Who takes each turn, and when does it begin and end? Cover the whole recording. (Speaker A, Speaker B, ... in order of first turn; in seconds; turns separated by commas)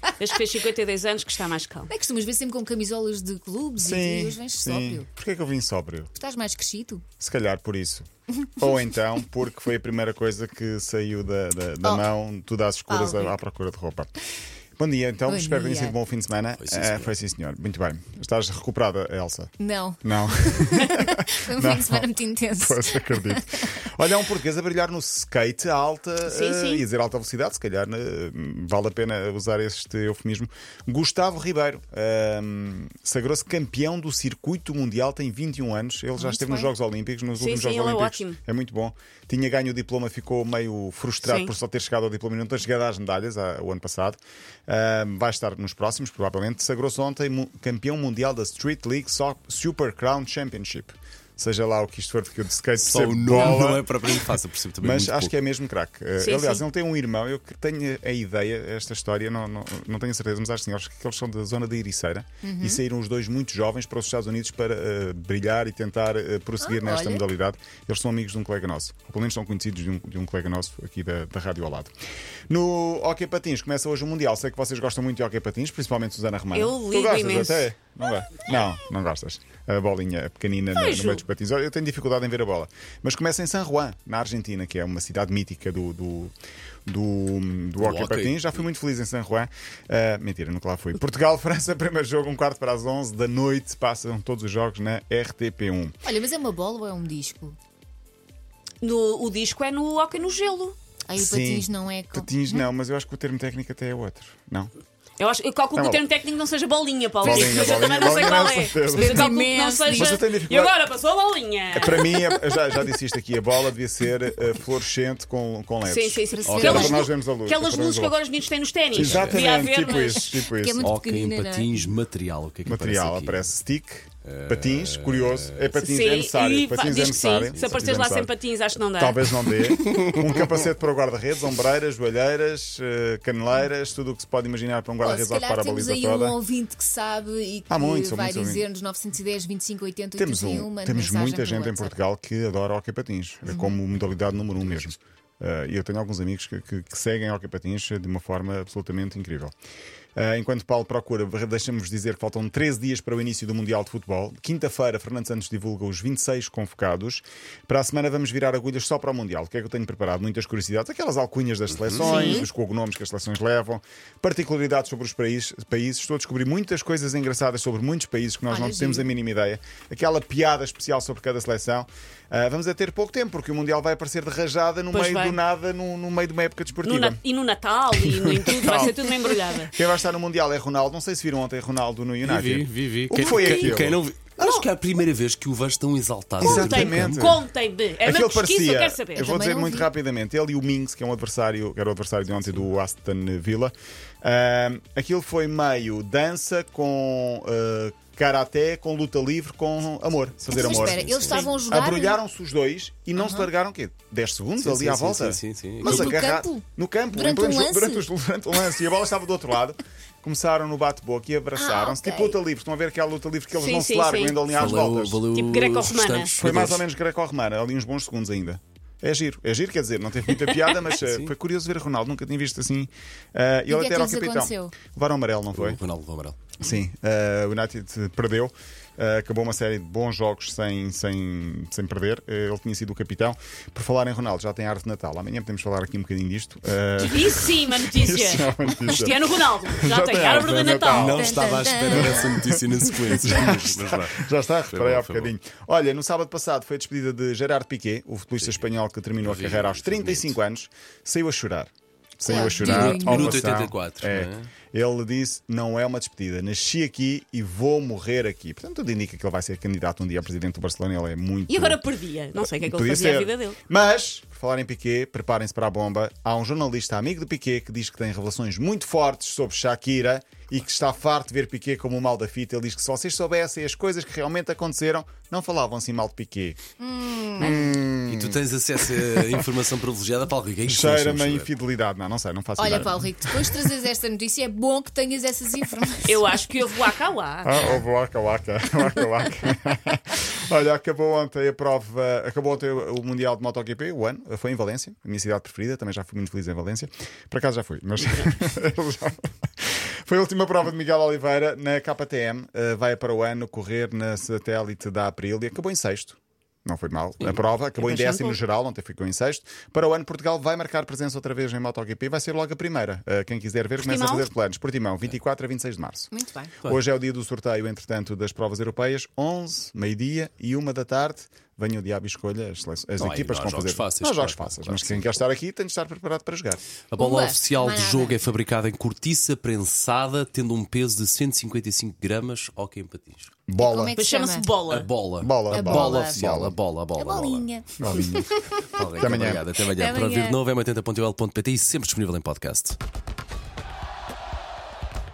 Speaker A: 0.2-1.9, Speaker B: 1.9-5.1, Speaker C: 3.8-6.1, Speaker B: 6.2-7.0, Speaker C: 7.2-14.1, Speaker B: 12.9-13.3, Speaker C: 14.8-53.9, Speaker B: 15.3-16.0, Speaker D: 16.6-17.1, Speaker B: 19.6-23.7, Speaker A: 26.3-26.8, Speaker B: 36.2-36.7, Speaker A: 37.4-38.4, Speaker A: 41.2-41.5, Speaker D: 52.8-55.3, Speaker C: 54.8-71.9, Speaker A: 56.2-56.6, Speaker B: 62.4-62.8, Speaker B: 66.6-67.2, Speaker C: 72.5-86.3, Speaker A: 76.5-77.7, Speaker A: 80.7-81.2, Speaker C: 86.9-95.9, Speaker D: 87.8-88.6, Speaker B: 96.0-97.5, Speaker A: 98.8-100.8, Speaker B: 101.1-102.6, Speaker C: 101.2-104.7, Speaker A: 105.2-112.4, Speaker C: 105.8-106.0, Speaker C: 107.2-109.3, Speaker B: 107.2-110.2, Speaker C: 109.9-110.8, Speaker C: 111.7-118.2, Speaker A: 115.8-120.3, Speaker B: 116.3-117.1, Speaker D: 116.5-117.0, Speaker C: 118.9-120.9, Speaker D: 118.9-119.4, Speaker B: 120.3-121.9, Speaker D: 120.8-123.5, Speaker C: 122.7-136.4, Speaker D: 124.2-125.7, Speaker A: 125.8-129.2, Speaker D: 127.4-127.9, Speaker D: 129.8-130.2, Speaker B: 135.0-142.0, Speaker C: 137.7-138.7, Speaker C: 140.2-149.5, Speaker B: 143.5-143.8, Speaker C: 150.2-177.2, Speaker D: 161.8-162.3, Speaker A: 162.0-162.5, Speaker B: 168.5-169.1, Speaker A: 174.9-175.4, Speaker A: 176.8-179.7, Speaker C: 177.9-179.0, Speaker C: 179.6-184.0, Speaker D: 182.2-187.2, Speaker A: 183.1-183.8, Speaker A: 184.4-184.7, Speaker C: 186.4-187.5, Speaker A: 186.4-189.2, Speaker C: 188.0-215.2, Speaker B: 189.2-189.9, Speaker B: 200.5-202.2, Speaker D: 200.5-201.5, Speaker B: 203.2-203.5, Speaker D: 204.6-206.2, Speaker B: 205.8-208.1, Speaker B: 211.6-212.4, Speaker A: 213.5-214.5, Speaker D: 214.5-216.8, Speaker A: 215.3-216.4, Speaker C: 216.4-225.8, Speaker D: 221.0-221.3, Speaker B: 223.7-224.8, Speaker D: 225.5-226.6, Speaker C: 226.6-261.8, Speaker A: 237.0-241.3, Speaker D: 240.9-245.3, Speaker B: 241.2-242.3, Speaker D: 248.4-250.4, Speaker B: 252.2-253.5, Speaker D: 252.3-254.5, Speaker A: 261.5-263.6, Speaker C: 262.4-276.6, Speaker B: 276.8-277.6, Speaker C: 277.4-278.4, Speaker A: 277.4-277.7, Speaker D: 278.0-281.5, Speaker C: 279.0-279.4, Speaker C: 280.6-283.7, Speaker B: 282.6-286.3, Speaker A: 286.1-287.7, Speaker C: 287.4-316.1, Speaker A: 307.8-308.4, Speaker A: 313.8-314.3, Speaker B: 316.1-316.5, Speaker C: 316.6-326.6, Speaker D: 323.0-325.1, Speaker D: 326.9-333.3, Speaker B: 327.0-328.2, Speaker C: 333.5-333.9, Speaker B: 333.6-334.5, Speaker A: 334.0-334.9, Speaker D: 334.7-337.5, Speaker C: 335.2-336.6, Speaker B: 335.5-336.5, Speaker B: 337.0-340.4, Speaker C: 337.8-338.3, Speaker D: 338.7-342.8, Speaker C: 339.0-339.4